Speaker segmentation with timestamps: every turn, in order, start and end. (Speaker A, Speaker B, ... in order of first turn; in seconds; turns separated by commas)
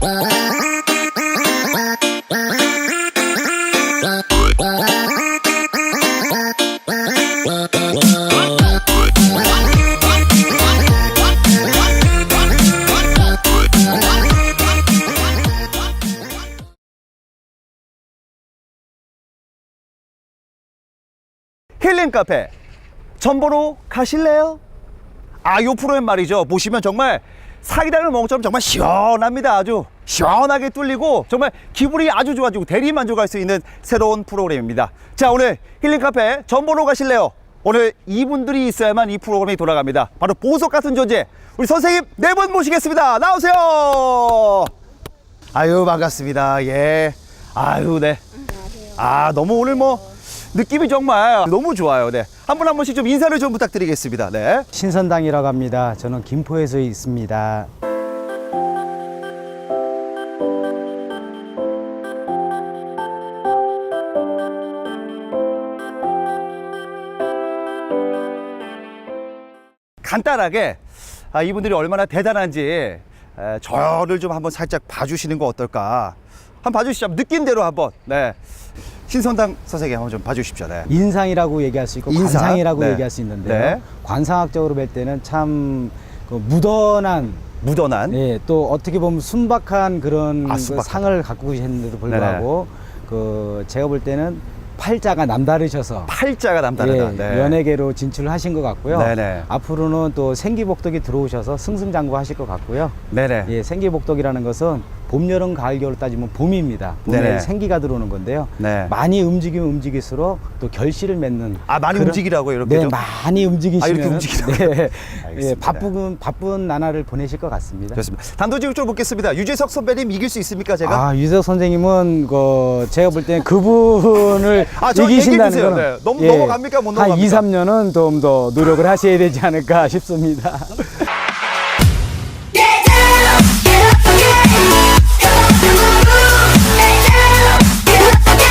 Speaker A: 21.8-22.5, Speaker A: 23.2-24.6, Speaker A: 25.4-44.7, Speaker A: 45.5-48.2, Speaker A: 48.9-54.7, Speaker B: 54.7-57.7, Speaker A: 70.0-70.8, Speaker A: 71.3-78.4, Speaker A: 79.1-80.9, Speaker B: 80.9-87.5, Speaker A: 82.1-83.8, Speaker A: 87.6-88.2, Speaker B: 88.1-96.1, Speaker A: 90.4-91.2, Speaker A: 92.1-92.5, Speaker A: 96.1-97.6, Speaker B: 96.8-118.0, Speaker A: 98.9-99.5, Speaker A: 103.1-103.5, Speaker A: 107.1-107.5, Speaker A: 108.6-108.9, Speaker A: 111.7-113.0, Speaker A: 113.8-115.9, Speaker A: 117.9-121.0, Speaker B: 120.8-130.9, Speaker A: 124.7-127.5